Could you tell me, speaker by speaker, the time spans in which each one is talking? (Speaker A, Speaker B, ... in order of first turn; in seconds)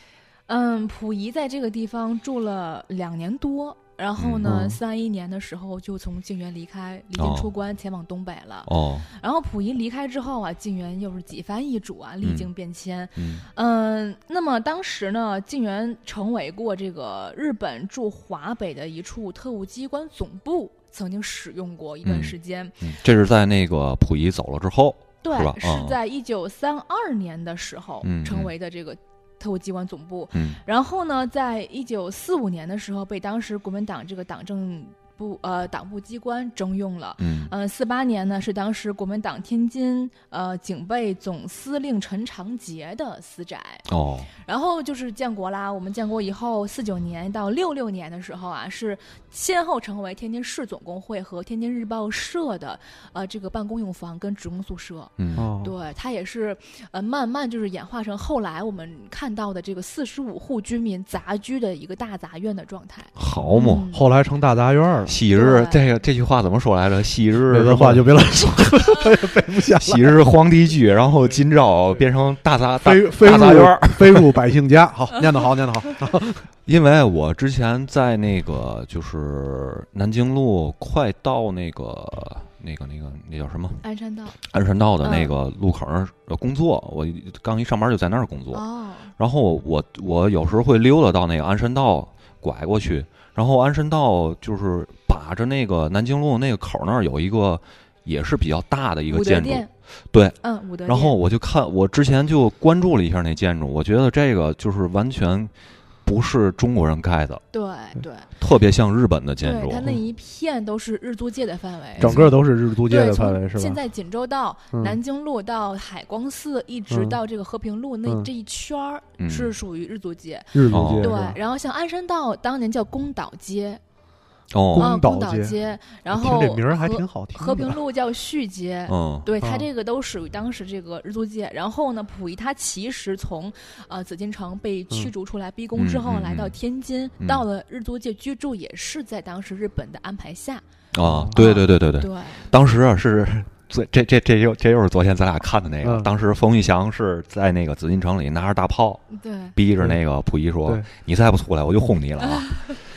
Speaker A: 0.5-23.0, 25.2-43.9, 44.4-64.0, 65.3-65.8, 83.8-84.4, 85.0-85.3, 88.5-89.1, 99.1-99.7, 100.4-101.2, 107.5-108.3, 109.4-112.3, 112.8-123.8, 124.8-140.6, 141.3-142.5, 149.1-149.6
Speaker B: 4.2-4.5, 7.2-7.5, 8.7-9.1, 12.2-12.5, 13.2-13.4, 22.0-26.0, 28.0-28.5, 30.3-30.6, 37.2-37.5, 43.9-44.3, 55.2-55.5, 63.1-63.9, 65.0-68.5, 69.8-74.3, 76.7-83.8, 84.5-88.6, 89.2-105.5, 106.0-107.4, 108.4-109.9, 112.0-112.3, 119.2-119.5, 120.7-121.1, 124.5-124.9, 128.9-129.3, 135.7-136.6, 140.9-152.8
Speaker C: 4.4-4.8, 55.4-55.7, 63.9-65.2, 67.5-70.2, 72.8-76.4, 112.0-113.8, 114.7-115.0, 116.9-117.2, 120.5-121.4, 124.7-125.5, 126.1-127.8, 129.4-129.7, 141.0-141.4, 145.8-146.1